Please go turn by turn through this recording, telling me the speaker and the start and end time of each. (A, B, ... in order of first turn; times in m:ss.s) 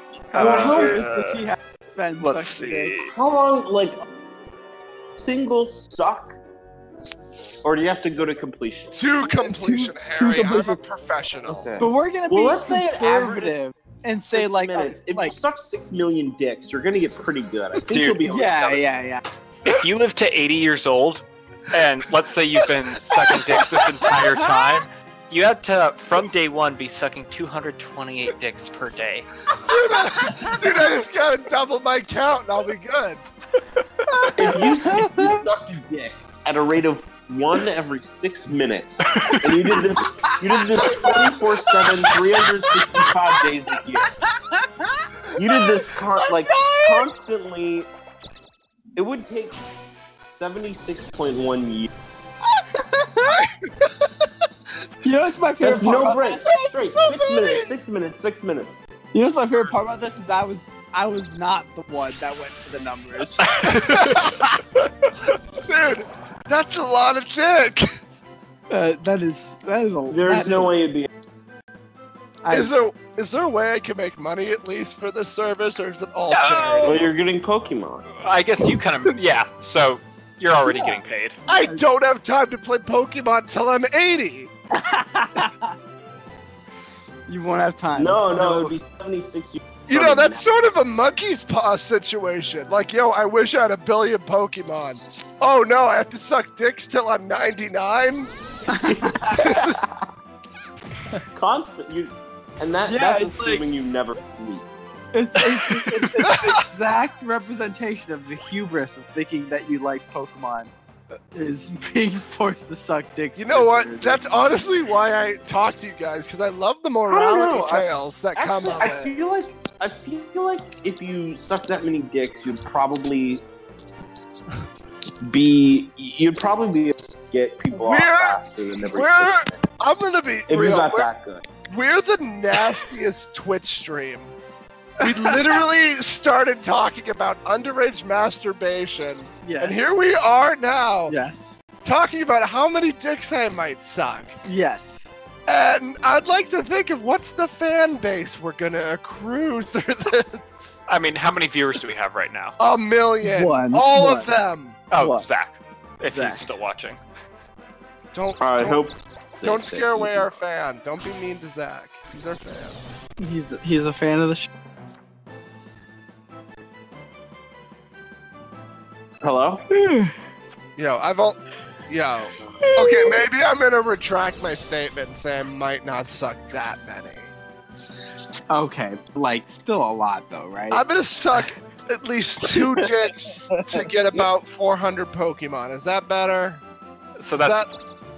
0:00.3-0:01.4 A
0:00.3-0:03.0 B
0:00.3-0:01.0 C
0:02.2-0:03.1 A
0:03.1-0:04.0 C
0:05.2-0:06.4 C
0:07.6-0:09.0 C
0:08.9-0:11.7 D
0:09.3-0:10.8 B
0:11.4-0:13.6 C
0:11.8-0:15.4 B
0:14.3-0:18.9 C
0:17.9-0:18.2 A
0:18.3-0:19.2 B
0:19.6-0:29.3 A
0:24.4-0:24.8 B
0:29.5-0:33.2 D
0:34.2-0:35.4 B
0:34.4-0:44.1 C
0:39.1-0:39.4 A
0:40.8-0:41.1 B
0:45.3-0:47.9 C
0:46.6-0:47.0 B
0:48.9-0:49.6 C
0:50.3-0:51.9 C
0:52.8-0:53.3 B
0:53.2-0:53.9 D
0:55.0-0:57.2 B
0:55.6-0:58.8 C
0:59.1-1:03.5 B
1:03.4-1:04.5 A
1:03.7-1:04.5 D
1:05.6-1:07.9 D
1:08.7-1:10.8 B
1:10.1-1:11.1 C
1:12.4-1:12.8 B
1:12.5-1:17.1 D
1:16.3-1:17.1 A
1:16.8-1:18.1 C
1:18.1-1:21.4 A
1:21.5-1:24.5 D
1:24.8-1:25.7 B
1:27.3-1:28.8 B
1:27.9-1:30.5 C
1:29.9-1:38.3 D
1:38.7-1:39.6 B
1:38.9-1:39.4 C
1:39.4-1:39.8 D
1:41.3-1:44.7 C
1:42.8-1:43.6 B
1:45.1-1:50.7 B
1:51.3-1:54.2 B
1:53.4-1:59.1 D
1:57.1-2:03.4 C
2:05.2-2:09.7 C
2:07.7-2:11.1 D
2:10.5-2:11.4 C
2:11.7-2:14.4 D
2:15.0-2:21.2 D
2:15.0-2:15.4 B
2:19.4-2:19.9 B
2:21.1-2:21.5 B
2:21.8-2:24.4 D
2:24.4-2:25.1 B
2:25.5-2:31.0 D
2:30.9-2:32.6 A
2:32.6-2:34.8 D
2:33.2-2:34.3 B
2:34.9-2:37.0 A
2:34.9-2:35.3 B
2:36.0-2:36.5 B
2:38.1-2:38.8 D
2:38.4-2:40.3 C
2:39.4-2:42.8 D
2:43.2-2:44.5 B
2:49.2-2:49.6 C
2:49.7-2:50.1 B
2:50.8-2:57.3 D
2:52.6-2:53.2 B
2:58.5-3:00.8 B
3:00.7-3:06.6 D
3:02.5-3:02.9 B
3:03.5-3:04.2 B
3:07.2-3:07.7 A
3:07.4-3:07.7 D